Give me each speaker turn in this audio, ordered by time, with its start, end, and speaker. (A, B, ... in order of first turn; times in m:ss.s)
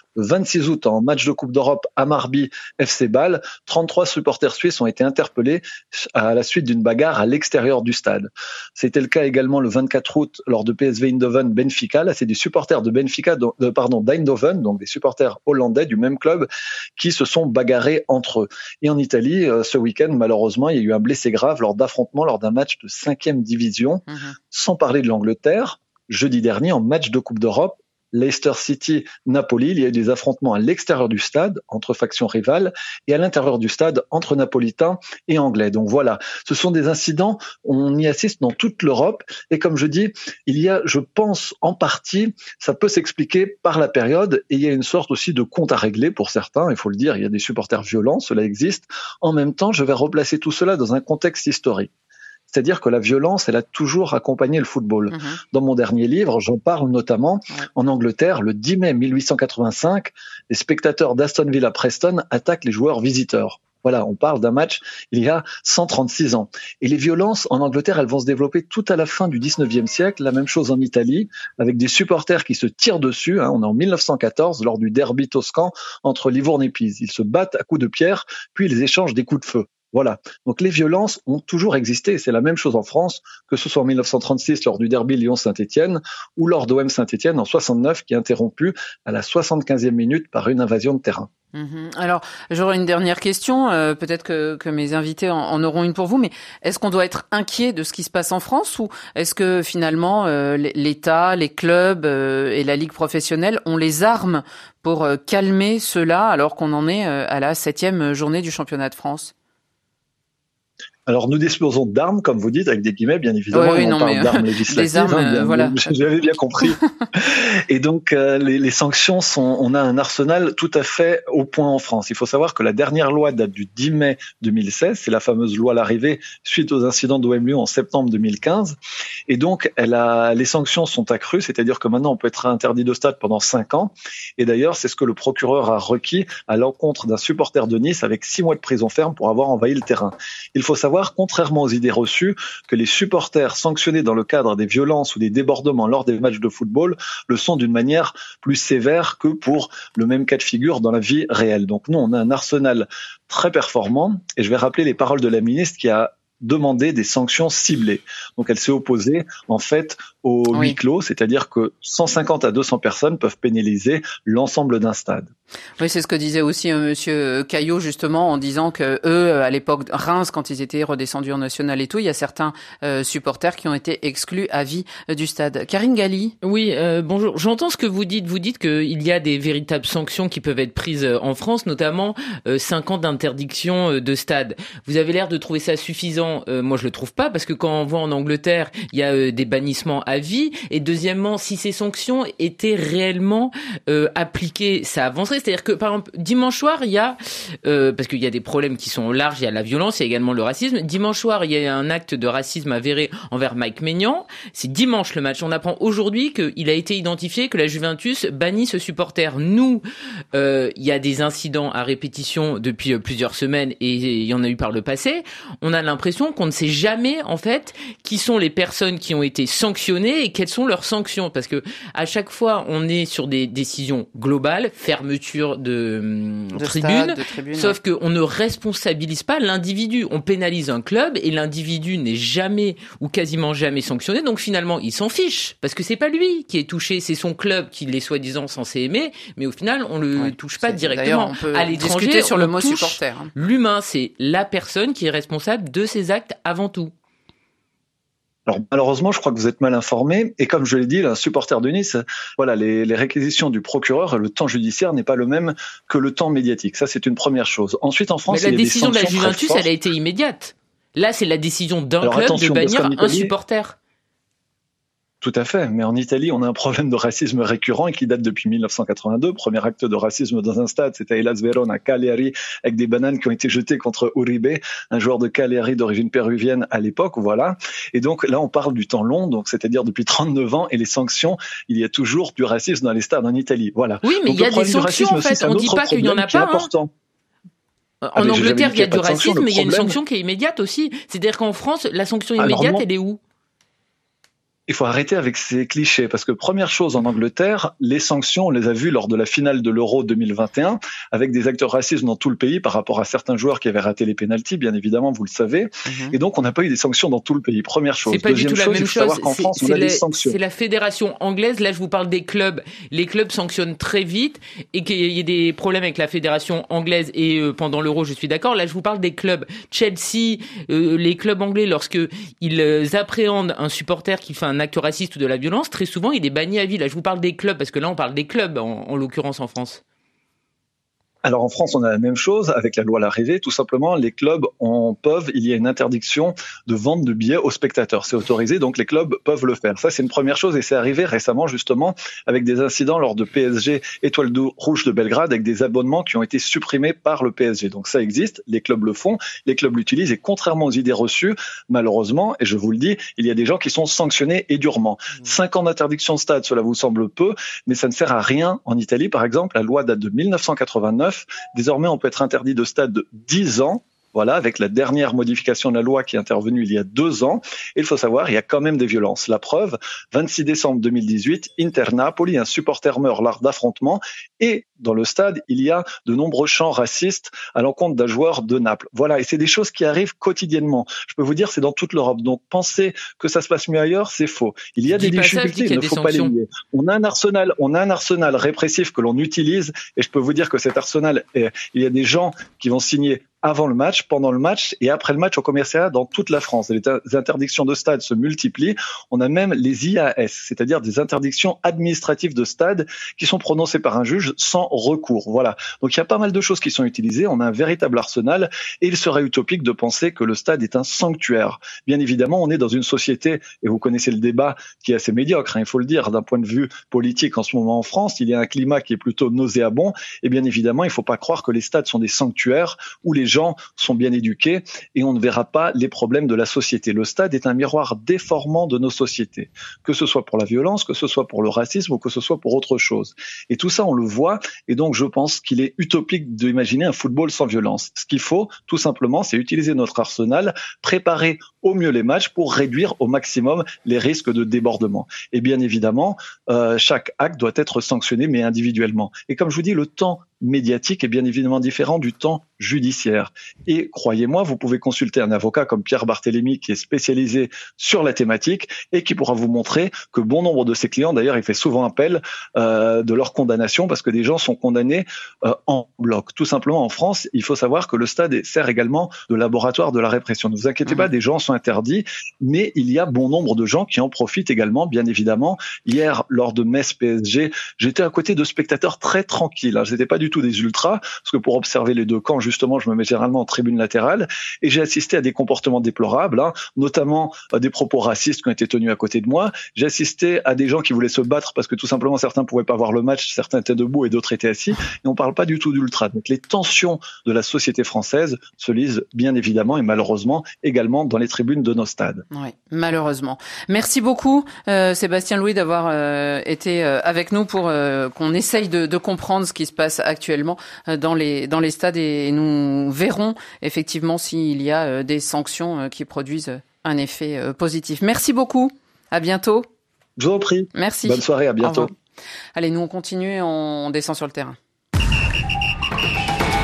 0:00.2-0:51.9 A
0:24.1-0:24.4 B
0:52.5-1:31.3 A
0:55.1-0:55.4 B
1:31.5-1:49.3 B
1:51.1-2:08.8 A
1:53.5-1:55.9 B
2:09.3-2:45.3 A
2:45.8-2:56.3 B
2:56.4-4:06.9 C
3:46.6-3:47.8 B
4:00.2-4:03.3 B
4:08.5-4:19.7 A
4:18.3-4:23.8 C
4:22.0-4:23.3 A
4:25.2-4:46.9 A
4:44.0-4:46.7 C
4:48.0-4:53.2 C
4:48.2-4:50.0 A
4:52.4-4:52.8 A
4:54.7-5:10.4 A
5:05.8-5:06.2 B
5:08.1-5:29.8 C
5:31.2-8:22.2 A
6:24.9-6:26.3 C
8:22.3-8:39.6 B
8:40.2-8:41.9 A
8:40.7-8:41.9 B
8:42.6-8:44.6 B